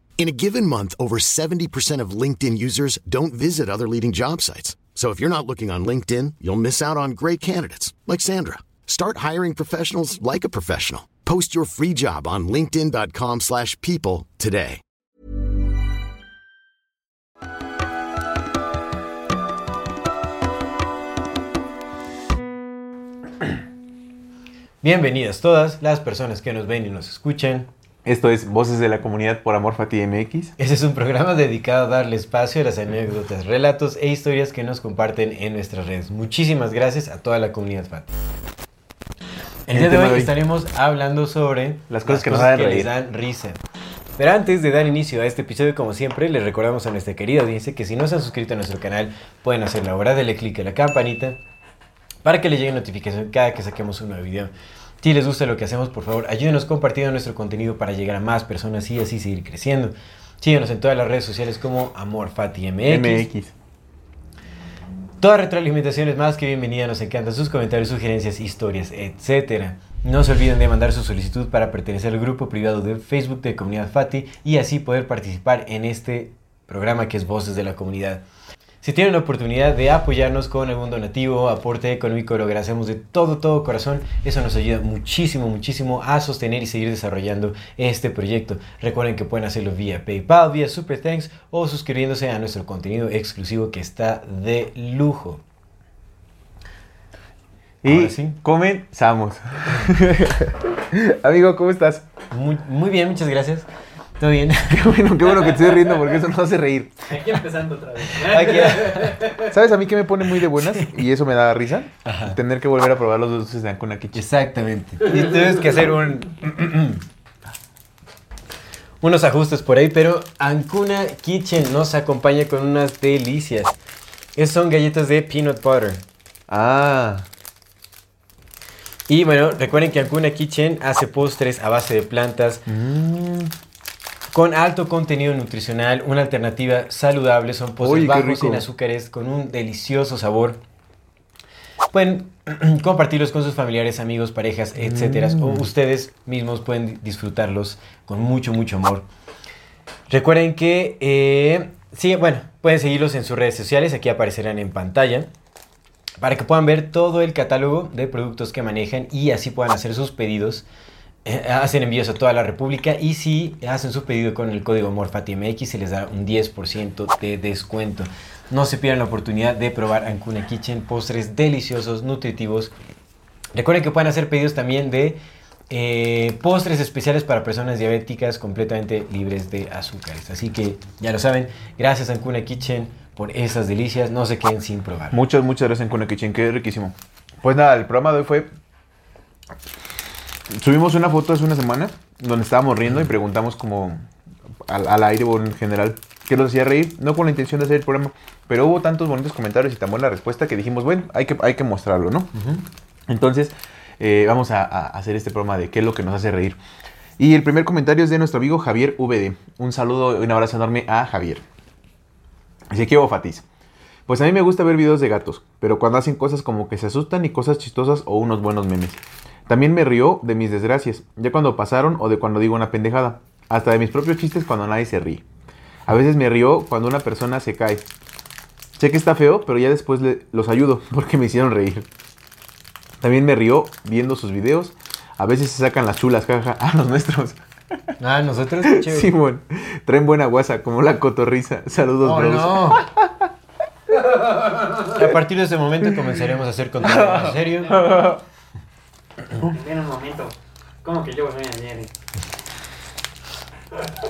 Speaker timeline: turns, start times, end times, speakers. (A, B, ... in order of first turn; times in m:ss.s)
0:00.2-0:14.8 A
0:24.8-0:27.7 B
0:28.0-0:30.5 C
0:30.6-0:38.1 B
0:39.7-0:43.6 B
0:39.7-0:40.4 C
0:41.9-0:42.9 C
0:44.2-0:51.4 B
0:52.2-1:03.3 B
1:02.8-1:03.5 C
1:05.2-1:18.2 B
1:18.8-1:35.4 B
1:37.8-1:42.1 C
1:37.8-1:38.4 B
1:42.3-1:43.7 B
1:44.2-1:44.9 B
1:44.7-1:47.0 C
1:47.1-1:49.6 D
1:48.1-1:49.2 B
1:49.5-1:54.2 C
1:50.6-1:51.0 B
1:52.0-1:52.4 B
1:54.1-1:57.0 B
1:55.1-1:55.4 D
1:59.0-2:03.8 B
2:04.4-2:06.0 B
2:06.5-2:07.3 C
2:09.1-2:12.7 B
2:12.7-2:13.5 C
2:14.3-2:20.6 B
2:17.8-2:18.6 C
2:21.9-2:29.1 B
2:24.8-2:25.7 C
2:30.1-2:35.3 B
2:36.2-2:40.7 B
2:41.2-2:52.7 B
2:53.5-3:05.2 B
3:05.1-3:08.5 C
3:10.5-3:14.1 C
3:14.6-3:22.3 C
3:22.4-3:22.6 B
3:23.1-3:26.6 C
3:27.2-3:31.4 C
3:32.7-3:33.4 C
3:34.1-3:45.2 C
3:45.9-3:47.9 C
3:48.8-3:51.9 C
3:53.0-3:57.4 C
3:58.0-3:59.1 B
3:58.6-4:03.3 C
4:02.0-4:02.8 B
4:04.1-4:04.9 D
4:04.9-4:07.8 B
4:05.8-4:06.2 C
4:06.8-4:08.2 C
4:09.4-4:11.9 D